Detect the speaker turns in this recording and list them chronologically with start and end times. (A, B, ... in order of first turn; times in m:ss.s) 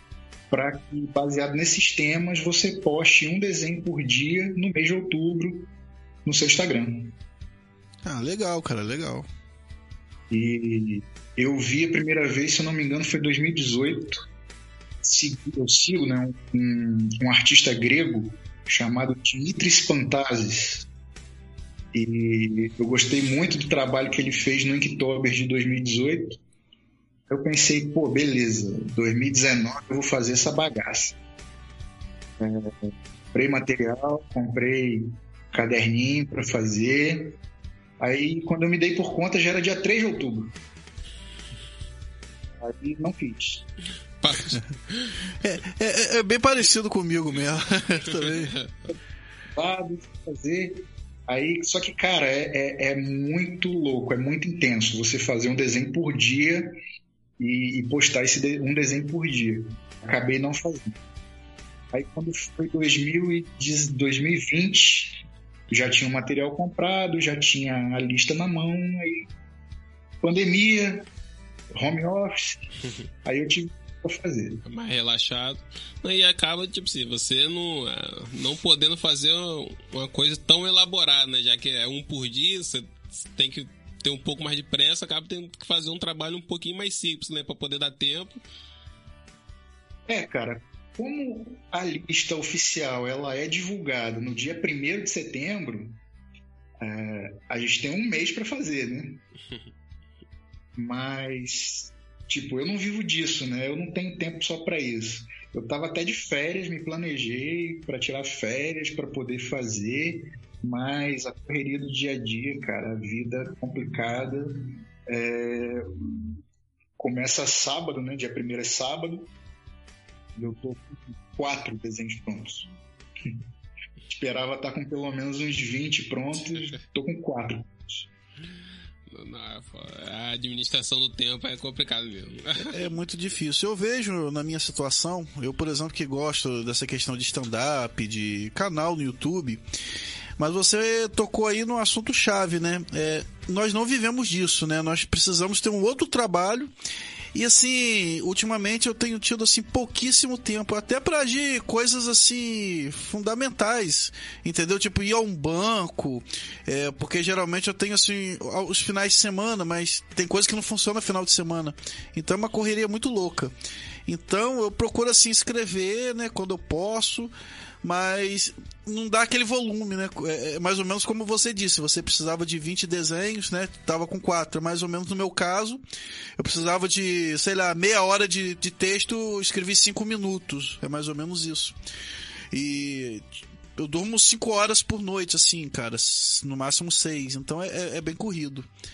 0:00.5-0:05.7 A
0:06.2-0:07.1 A
0:08.0-0:09.3 B
0:10.3-0:14.2 A
0:15.0-0:20.8 A
0:21.9-0:26.4 A
0:27.3-0:31.2 A
0:32.4-0:37.4 A
0:38.0-0:40.5 A
0:42.6-0:43.6 A
0:44.2-0:45.2 C
0:45.4-0:48.5 B
0:48.2-0:48.7 C
0:49.5-0:56.7 A
0:57.4-1:01.0 A
1:01.9-1:09.3 A
1:10.2-1:11.1 A
1:11.7-1:12.7 A
1:13.2-1:14.6 A
1:14.6-1:28.4 C
1:30.1-1:36.0 A
1:36.8-1:39.2 A
1:40.8-1:56.4 A
1:57.0-1:59.3 A
2:00.4-2:02.7 A
2:04.1-2:08.1 A
2:09.1-2:12.8 C
2:12.6-2:19.6 B
2:20.4-2:26.7 B
2:27.3-2:43.5 B
2:44.0-2:55.8 B
2:56.4-3:01.7 B
3:02.5-3:08.7 B